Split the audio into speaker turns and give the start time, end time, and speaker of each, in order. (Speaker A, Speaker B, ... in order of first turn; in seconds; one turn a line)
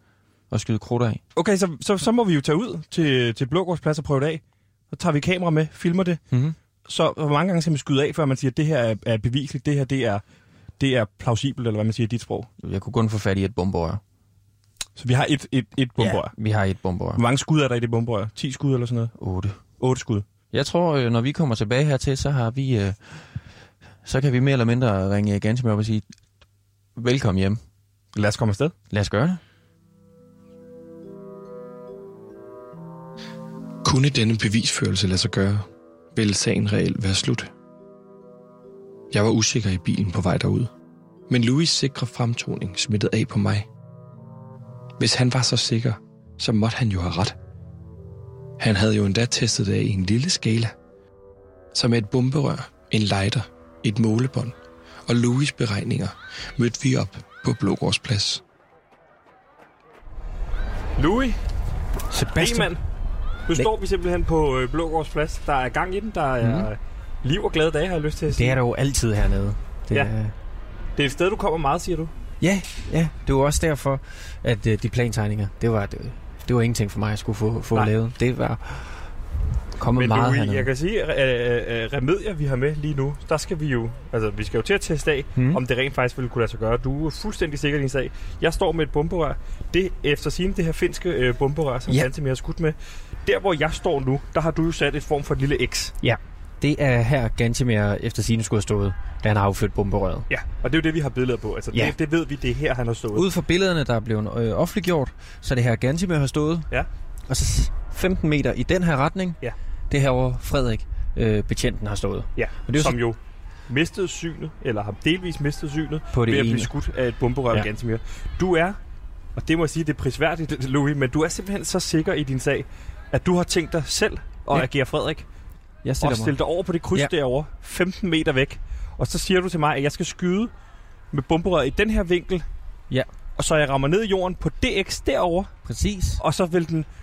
Speaker A: 0.5-1.2
Speaker B: 1.4-6.2
Speaker A: 6.3-6.6
Speaker B: 6.9-10.2
Speaker B: 10.8-12.5
Speaker A: 12.6-14.0
Speaker B: 15.0-16.3
Speaker A: 16.0-17.2
Speaker B: 17.2-19.1
Speaker A: 19.2-19.6
Speaker B: 19.8-20.2
Speaker A: 20.5-23.2
Speaker A: 24.1-26.0
Speaker A: 27.0-27.6
Speaker B: 28.1-28.7
Speaker A: 28.9-29.4
Speaker C: 33.8-37.5
Speaker C: 39.1-40.7
Speaker C: 41.3-43.7
Speaker C: 45.0-47.4
Speaker C: 48.6-50.7
Speaker C: 51.7-54.5
Speaker C: 55.1-58.4
Speaker B: 61.0-61.4
Speaker A: 62.1-62.7
Speaker B: 62.3-62.8
Speaker B: 63.5-68.6
Speaker A: 66.4-66.7
Speaker A: 68.3-70.3
Speaker B: 71.0-72.1
Speaker A: 72.4-79.1
Speaker A: 79.8-80.7
Speaker B: 80.0-95.9
Speaker A: 85.4-85.6
Speaker A: 96.0-100.3
Speaker B: 100.3-103.3
Speaker A: 103.1-106.7
Speaker A: 107.3-113.0
Speaker B: 112.4-118.8
Speaker A: 116.1-116.7
Speaker B: 119.4-125.3
Speaker A: 125.8-126.3
Speaker B: 126.0-130.5
Speaker B: 131.1-132.5
Speaker B: 133.4-135.5
Speaker A: 135.7-136.2
Speaker B: 136.2-136.9